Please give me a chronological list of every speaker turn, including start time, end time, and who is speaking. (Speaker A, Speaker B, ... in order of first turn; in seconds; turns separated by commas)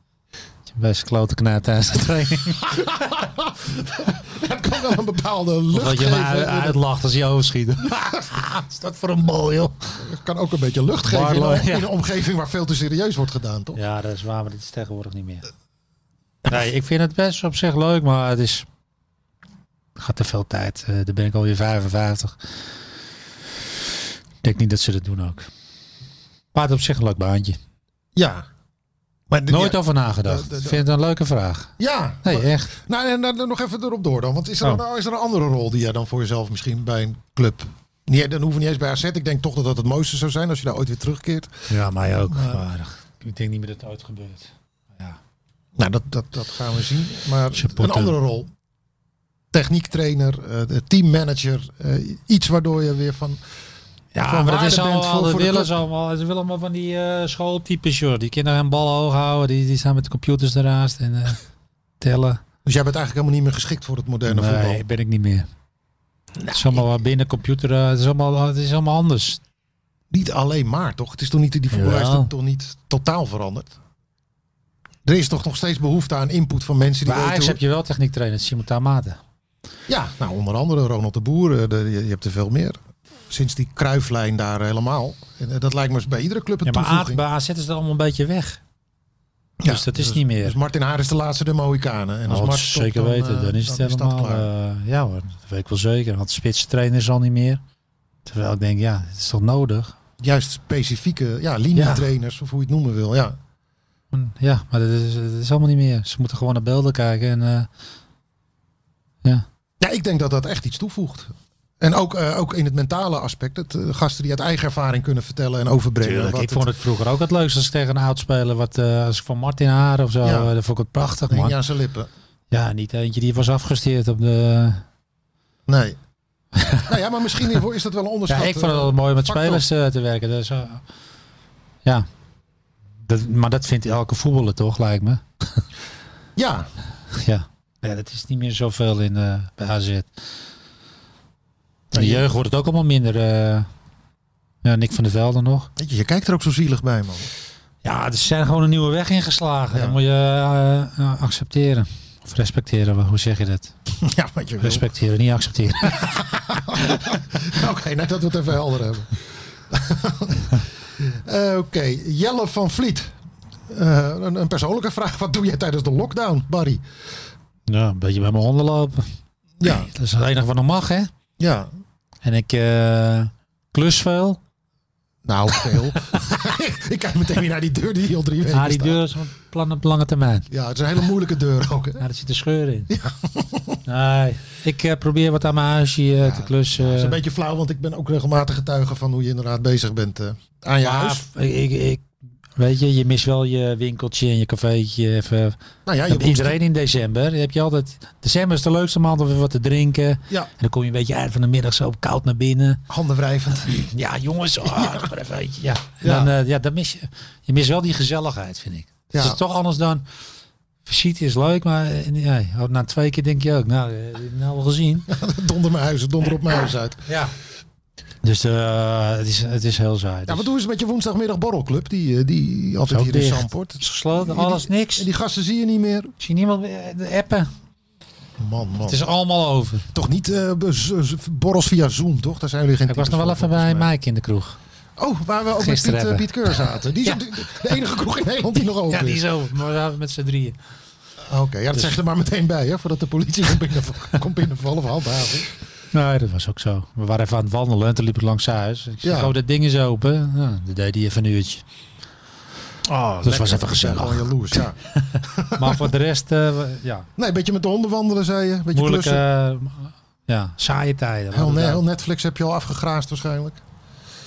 Speaker A: 0.7-3.0, Speaker B: 2.6-6.8, Speaker A: 5.7-9.8, Speaker B: 7.9-8.4, Speaker B: 9.9-13.8, Speaker A: 11.0-11.9, Speaker A: 13.8-15.5, Speaker A: 16.5-18.7, Speaker A: 20.0-22.4, Speaker A: 24.4-25.5, Speaker A: 26.5-27.6, Speaker B: 28.2-28.5, Speaker B: 29.3-30.8, Speaker A: 29.5-31.7, Speaker B: 31.8-41.7, Speaker A: 32.2-32.7, Speaker A: 41.7-45.2, Speaker B: 42.3-42.6, Speaker B: 45.8-48.5, Speaker A: 47.5-48.2, Speaker B: 49.5-53.4, Speaker A: 54.1-61.4, Speaker B: 54.3-55.7, Speaker A: 62.0-62.4, Speaker B: 62.6-64.8, Speaker A: 64.3-65.5, Speaker B: 66.4-66.9, Speaker A: 66.5-69.4, Speaker B: 70.1-73.7, Speaker A: 71.7-72.3, Speaker B: 75.0-77.6, Speaker A: 77.1-79.2, Speaker B: 79.9-87.2, Speaker A: 86.7-88.6, Speaker B: 89.6-94.5, Speaker A: 89.6-90.6, Speaker A: 92.3-97.6, Speaker A: 98.2-100.0, Speaker B: 100.2-103.4, Speaker A: 101.8-102.1, Speaker A: 104.1-107.7, Speaker B: 109.8-116.7, Speaker A: 116.0-121.6, Speaker B: 120.2-120.5, Speaker B: 121.3-122.1, Speaker A: 122.5-124.8, Speaker B: 125.7-126.0, Speaker A: 126.5-126.9, Speaker B: 126.9-129.6, Speaker A: 128.3-130.8, Speaker A: 133.1-135.6, Speaker B: 136.4-136.7, Speaker A: 137.1-140.1, Speaker B: 141.9-142.3, Speaker A: 141.9-143.7, Speaker A: 144.6-145.7, Speaker B: 145.8-147.3, Speaker A: 147.8-153.7, Speaker B: 149.7-150.0, Speaker B: 154.0-154.8, Speaker A: 154.6-156.1, Speaker B: 155.9-159.2, Speaker B: 159.7-163.1, Speaker B: 163.7-166.8, Speaker A: 167.7-169.1, Speaker B: 169.6-169.9, Speaker A: 169.7-171.1, Speaker B: 171.4-171.7, Speaker A: 172.2-174.4, Speaker B: 175.2-179.0, Speaker A: 178.5-180.5, Speaker B: 180.5-182.0, Speaker A: 182.0-182.9, Speaker B: 182.9-183.8, Speaker A: 183.9-187.2, Speaker B: 186.2-191.2, Speaker A: 190.8-192.0, Speaker A: 192.6-195.6, Speaker B: 195.9-196.6, Speaker A: 196.1-202.8, Speaker B: 202.9-203.7, Speaker A: 203.7-210.1, Speaker B: 204.7-205.1, Speaker B: 206.0-206.3, Speaker B: 209.1-209.4, Speaker A: 210.8-215.1, Speaker B: 215.1-217.1, Speaker A: 217.1-217.3, Speaker A: 218.2-220.5, Speaker B: 220.3-226.1, Speaker A: 222.9-225.1, Speaker A: 226.2-227.5, Speaker B: 228.4-229.0, Speaker A: 228.8-229.9, Speaker B: 229.9-233.9, Speaker A: 232.9-234.6, Speaker B: 235.0-239.2, Speaker A: 235.6-236.3, Speaker A: 238.9-240.6, Speaker B: 241.3-245.5, Speaker A: 245.9-251.6, Speaker B: 249.0-249.3, Speaker B: 252.9-255.9, Speaker A: 253.0-257.1, Speaker B: 257.2-259.2, Speaker A: 258.7-261.8, Speaker B: 261.3-263.6